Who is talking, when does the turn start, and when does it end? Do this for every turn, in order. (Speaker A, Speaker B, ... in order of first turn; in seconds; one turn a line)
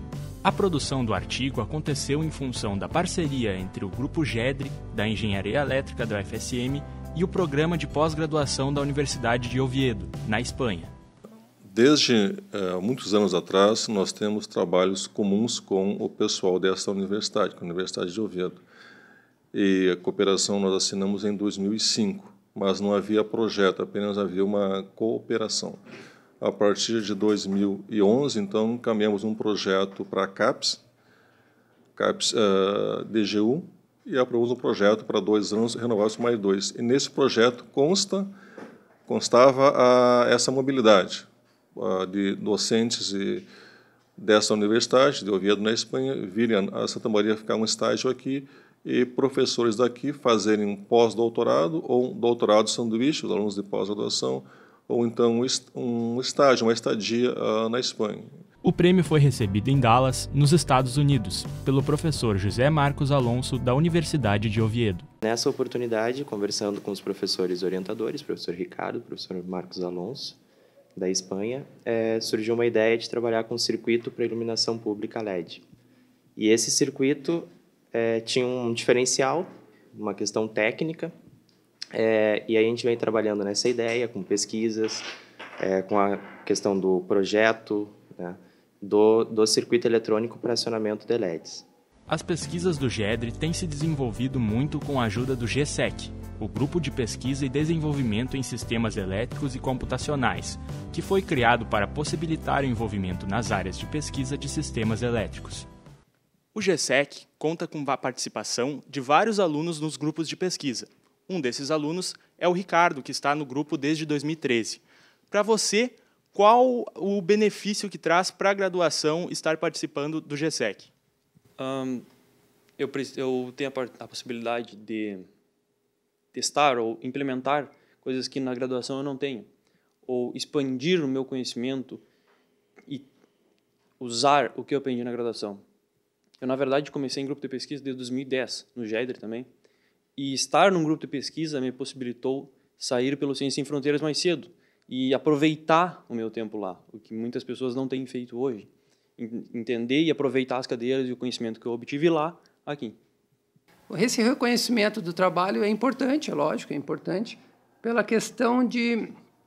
Speaker A: 0.4-10.9
Speaker B: 11.7-18.6
Speaker B: 19.5-25.8
Speaker B: 26.4-30.8
Speaker B: 32.0-38.3
Speaker B: 39.1-43.5
Speaker B: 44.2-58.4
Speaker A: 58.6-65.1
Speaker C: 65.2-70.4
Speaker C: 71.0-75.6
Speaker C: 76.3-81.1
Speaker C: 81.9-85.1
Speaker C: 85.6-91.7
Speaker A: 92.1-105.7
Speaker A: 106.5-120.9
Speaker D: 121.6-122.1
Speaker D: 122.8-125.2
Speaker D: 126.3-129.5
Speaker D: 130.1-132.0
Speaker D: 134.0-135.6
Speaker D: 136.4-139.5
Speaker D: 140.2-152.9
Speaker E: 153.9-159.1